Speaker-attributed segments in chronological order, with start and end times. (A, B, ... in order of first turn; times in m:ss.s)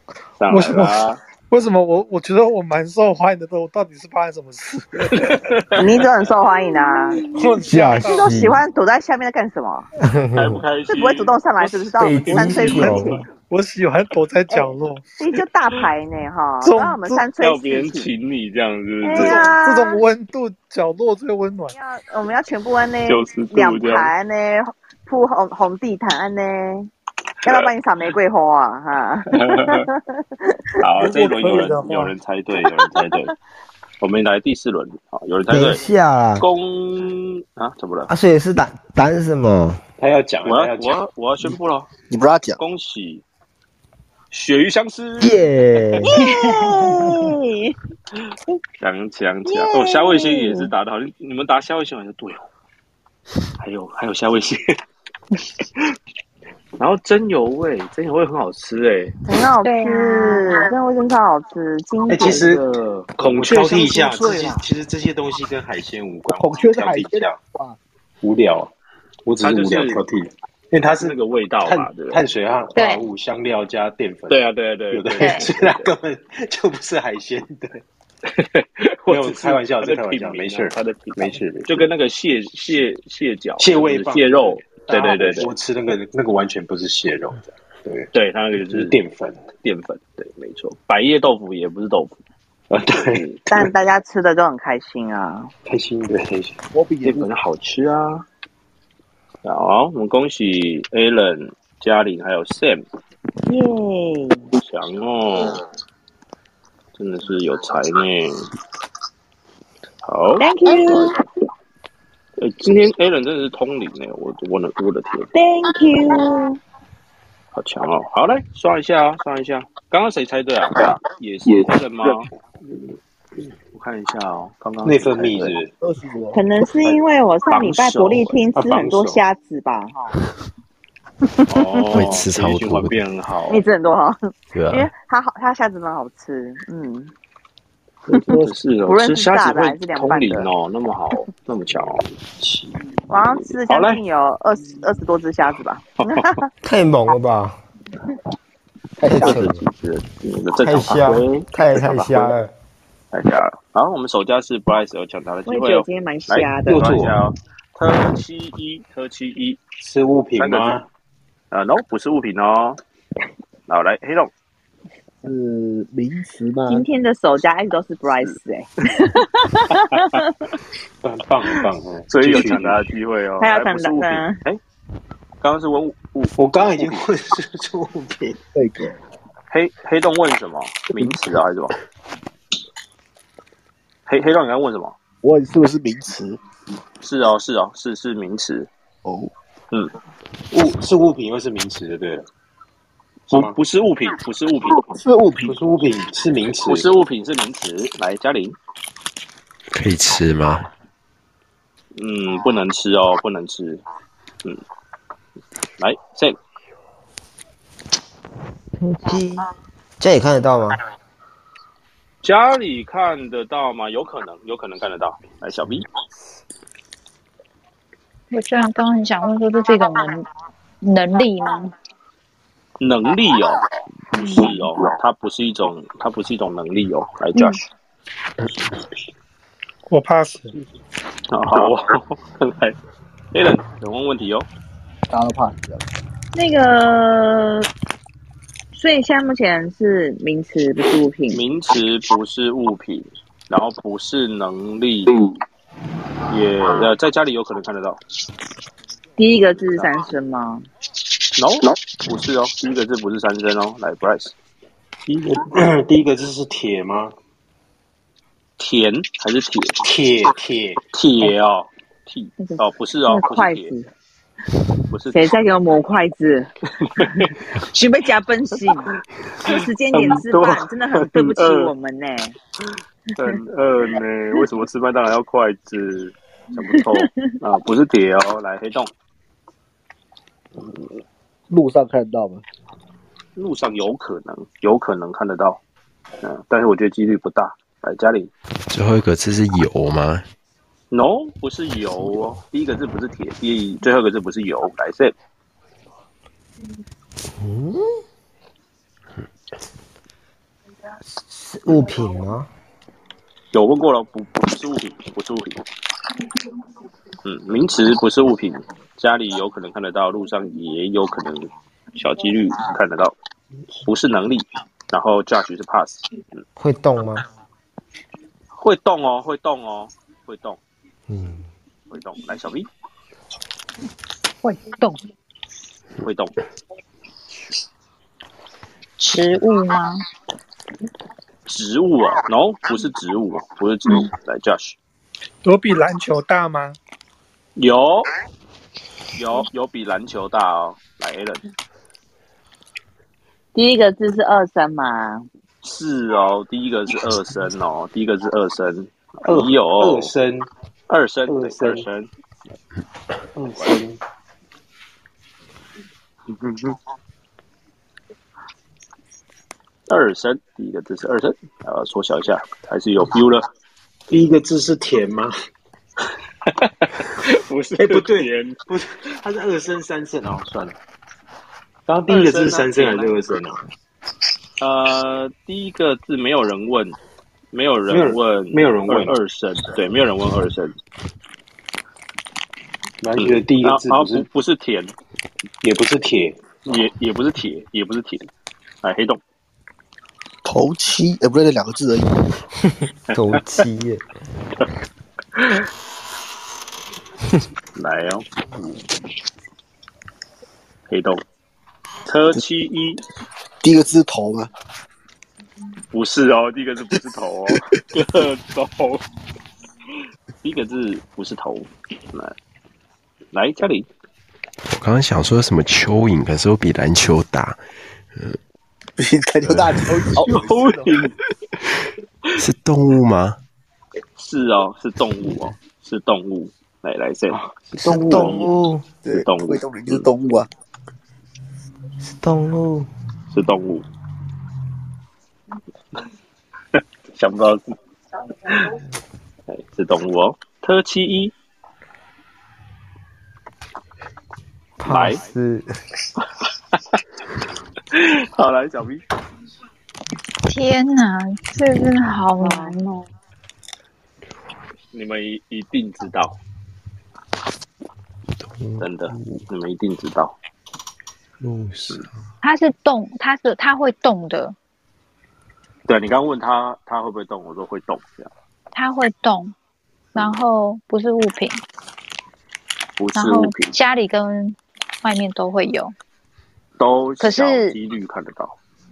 0:00.4-0:01.2 A
0:00.5-0:01.0 B
0:01.5-0:05.3 B
0:05.0-0:06.0 A
0:05.8-0:07.3 C
0:07.2-0:08.5 B
0:07.6-0:08.6 D
0:08.0-0:09.9 C
0:10.0-0:10.6 D
0:10.3-0:13.2 A
0:10.9-0:13.2 C
0:12.0-0:13.2 D
0:13.4-0:15.0 B
0:14.5-0:18.1 C
0:16.6-0:17.2 B
0:17.4-0:19.5 A
0:19.0-0:20.0 C
0:19.1-0:21.7 B
0:21.7-0:26.9 C
0:23.1-0:24.1 A
0:27.4-0:27.7 A
0:27.4-0:30.0 C
0:29.3-0:29.9 A
0:30.8-0:33.3 A
0:31.0-0:32.1 B
0:34.0-0:35.8 A
0:35.5-0:36.4 D
0:36.4-0:38.1 A
0:38.1-0:39.8 D
0:40.0-0:41.0 E
0:40.4-0:41.9 A
0:42.1-0:42.6 F
0:42.6-0:43.2 A
0:44.3-0:46.1 A
0:45.2-0:46.2 D
0:46.1-0:47.8 C
0:48.8-0:52.4 A
0:49.4-0:50.7 C
0:53.6-0:54.8 A
0:56.8-0:59.1 A
0:59.2-1:02.6 C
0:59.6-1:00.7 G
1:02.1-1:07.4 E
1:03.2-1:04.6 A
1:06.3-1:07.8 F
1:08.2-1:08.7 E
1:09.2-1:17.8 E
1:09.4-1:10.0 A
1:11.0-1:12.2 A
1:12.7-1:13.0 G
1:14.3-1:15.9 A
1:15.2-1:15.4 G
1:18.3-1:25.5 A
1:19.1-1:21.9 E
1:23.6-1:29.4 E
1:28.1-1:29.0 A
1:29.6-1:32.2 A
1:32.7-1:33.3 E
1:32.9-1:33.4 A
1:33.5-1:35.5 C
1:35.6-1:36.6 E
1:36.7-1:37.3 F
1:37.0-1:38.2 A
1:39.4-1:42.8 A
1:43.4-1:44.4 C
1:44.5-1:45.6 A
1:47.0-1:48.5 A
1:50.0-1:51.2 A
1:50.4-1:51.2 C
1:52.4-1:55.3 A
1:55.3-1:56.6 C
1:57.5-2:02.3 A
2:03.7-2:05.6 A
2:04.8-2:05.7 E
2:05.8-2:06.4 F
2:06.3-2:10.1 C
2:07.5-2:08.4 A
2:08.5-2:09.2 E
2:11.5-2:13.6 A
2:11.9-2:12.9 H
2:13.5-2:17.1 C
2:14.5-2:14.9 H
2:18.3-2:22.1 A
2:18.9-2:20.5 C
2:22.4-2:22.8 E
2:23.1-2:26.5 C
2:23.6-2:24.0 A
2:26.6-2:27.6 D
2:29.0-2:29.6 D
2:29.2-2:32.3 A
2:30.6-2:32.5 D
2:33.1-2:39.6 A
2:35.5-2:36.9 C
2:36.4-2:37.2 E
2:39.8-2:40.8 E
2:40.4-2:40.8 A
2:41.5-2:42.8 A
2:43.7-2:44.3 A
2:45.2-2:46.8 F
2:46.7-2:50.2 C
2:49.7-2:50.2 A
2:51.0-2:52.9 E
2:52.1-2:54.6 A
2:53.4-2:54.4 C
2:55.4-2:57.0 A
2:56.4-2:58.4 E
2:58.5-2:58.9 F
2:59.5-3:01.7 A
3:04.1-3:04.9 A
3:05.2-3:06.4 F
3:07.0-3:08.7 A
3:09.0-3:09.3 F
3:10.5-3:12.2 E
3:13.3-3:14.8 A
3:13.3-3:13.6 E
3:14.9-3:15.6 F
3:15.4-3:16.9 E
3:16.6-3:18.6 A
3:19.7-3:20.7 H
3:22.0-3:23.8 A
3:25.8-3:26.4 A
3:28.8-3:29.5 D
3:30.0-3:30.8 D
3:32.2-3:35.8 A
3:38.3-3:40.3 G
3:40.8-3:41.7 G
3:42.8-3:47.6 A
3:44.2-3:44.5 G
3:49.9-3:50.5 B
3:51.3-3:52.8 A
3:53.3-3:54.5 A
3:55.1-3:55.8 F
3:56.3-3:57.7 C
3:58.7-4:01.4 C
4:01.3-4:05.2 A
4:06.3-4:08.0 A
4:09.2-4:10.6 C
4:11.4-4:14.3 A
4:15.1-4:17.1 E
4:18.6-4:19.8 A
4:19.8-4:20.8 E
4:20.9-4:23.7 A
4:22.4-4:23.9 C
4:24.9-4:25.3 A
4:25.1-4:26.5 C
4:26.8-4:27.4 A
4:27.5-4:32.4 C
4:29.4-4:31.7 A
4:33.1-4:38.9 A
4:41.5-4:42.4 F
4:43.4-4:45.6 A
4:46.2-4:48.3 A
4:48.7-4:50.2 H
4:50.9-4:55.1 A
4:57.4-4:58.0 D
5:01.3-5:02.5 D
5:03.5-5:05.6 A
5:07.2-5:13.2 A
5:13.8-5:16.4 A
5:16.6-5:17.2 D
5:18.5-5:20.6 A
5:21.1-5:21.4 D
5:21.9-5:22.7 A
5:24.4-5:25.0 G
5:26.0-5:26.4 A
5:29.0-5:30.0 G
5:31.5-5:34.8 A
5:35.4-5:36.8 B
5:37.6-5:38.0 A
5:39.2-5:41.4 A
5:43.5-5:45.2 C
5:45.6-5:50.1 A
5:49.2-5:50.5 E
5:50.9-5:52.1 A
5:51.3-5:51.8 E
5:53.3-5:54.0 E
5:59.9-6:03.5 A
6:04.1-6:05.3 E
6:06.5-6:08.6 A
6:07.8-6:10.7 E
6:11.9-6:13.6 E
6:12.1-6:13.1 A
6:14.6-6:17.0 A
6:17.5-6:20.8 A
6:17.9-6:19.2 E
6:23.0-6:24.3 E
6:23.2-6:24.9 A
6:25.6-6:26.4 E
6:26.6-6:28.3 A
6:28.8-6:29.2 A
6:30.4-6:32.1 F
6:33.1-6:34.0 D
6:35.4-6:35.7 A
6:37.7-6:38.2 A
6:40.9-6:41.2 A
6:42.0-6:43.0 A
6:43.6-6:44.5 F
6:45.9-6:49.0 A
6:50.4-6:52.3 A
6:53.3-6:53.9 A
6:54.7-6:57.6 H
6:59.0-7:01.0 F
6:59.5-7:00.0 H
7:00.2-7:01.1 A
7:02.4-7:03.4 H
7:04.2-7:07.4 A
7:07.5-7:08.4 E
7:07.8-7:08.9 D
7:08.0-7:08.5 A
7:09.0-7:10.5 F
7:09.1-7:10.1 A
7:12.0-7:12.9 D
7:13.3-7:13.8 A
7:17.1-7:17.7 A
7:18.5-7:18.8 A
7:19.5-7:21.3 A
7:24.8-7:25.7 D
7:24.8-7:25.2 A
7:26.2-7:26.8 A
7:27.9-7:29.0 A
7:30.4-7:32.8 G
7:32.4-7:33.0 C
7:34.9-7:36.4 A
7:38.5-7:39.4 H
7:38.8-7:40.4 A
7:41.4-7:42.0 H
7:42.4-7:44.5 G
7:45.9-7:48.3 A
7:48.7-7:49.5 G
7:50.1-7:51.6 G
7:53.0-7:53.7 A
7:53.2-7:55.9 G
7:56.8-7:58.6 A
7:57.2-7:57.8 G